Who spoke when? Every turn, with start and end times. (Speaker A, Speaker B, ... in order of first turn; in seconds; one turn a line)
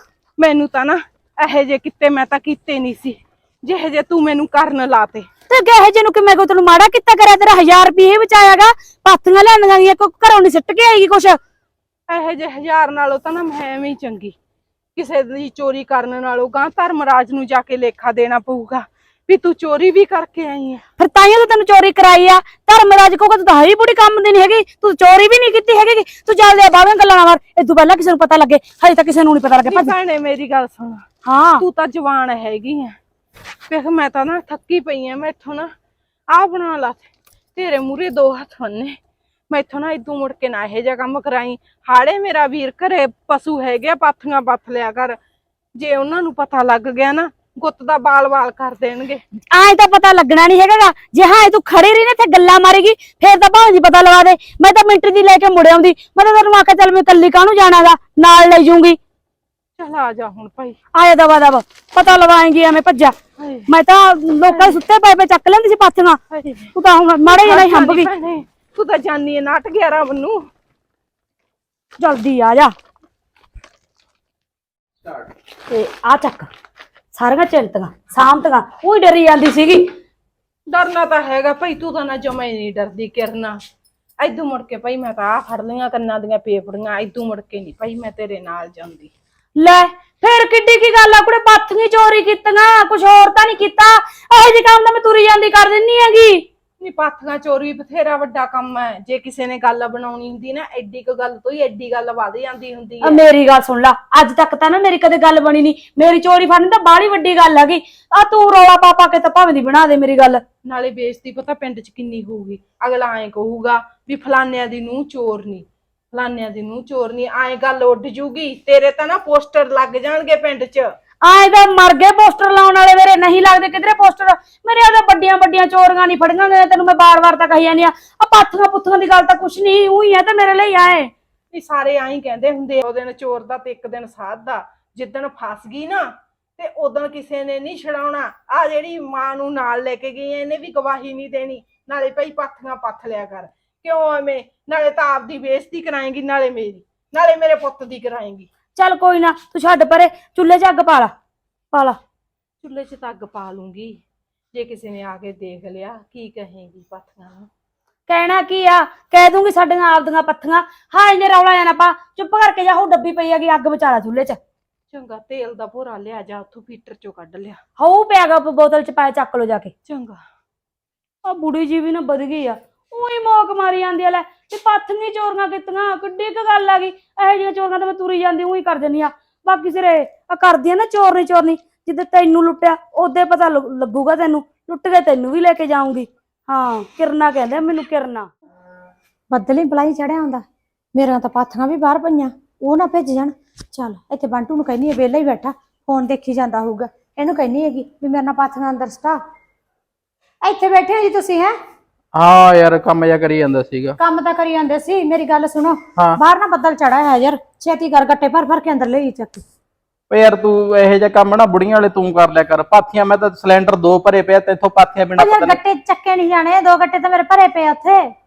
Speaker A: 0.4-5.3
Speaker B: 5.5-11.4
Speaker A: 12.1-14.3
Speaker A: 15.0-20.8
Speaker B: 21.0-29.9
Speaker A: 29.6-31.0
Speaker B: 31.2-31.6
Speaker A: 31.6-33.0
Speaker A: 33.7-35.7
Speaker A: 36.3-39.0
Speaker A: 39.5-45.2
Speaker A: 45.8-49.2
Speaker B: 49.5-59.0
Speaker A: 59.8-60.8
Speaker B: 60.9-63.1
Speaker A: 63.4-63.7
Speaker B: 63.7-66.2
Speaker A: 64.5-64.8
Speaker A: 66.3-70.5
Speaker B: 66.8-68.1
Speaker B: 72.0-72.7
Speaker B: 75.7-76.5
Speaker B: 77.1-79.9
Speaker A: 80.7-83.6
Speaker A: 84.2-89.1
Speaker B: 89.6-96.4
Speaker A: 96.8-103.2
Speaker B: 103.0-110.4
Speaker A: 110.7-120.9
Speaker B: 121.2-131.1
Speaker A: 131.5-148.5
Speaker B: 148.8-151.1
Speaker B: 151.7-152.0
Speaker A: 152.6-154.0
Speaker A: 154.5-157.5
Speaker B: 158.1-164.4
Speaker A: 164.9-167.6
Speaker B: 167.8-169.7
Speaker A: 169.9-170.2
Speaker B: 171.2-188.3
Speaker C: 189.3-190.4
Speaker C: 190.9-199.2
Speaker C: 200.4-201.5
Speaker D: 202.2-204.0
Speaker C: 204.0-209.4
Speaker D: 210.1-215.6
Speaker C: 215.2-218.0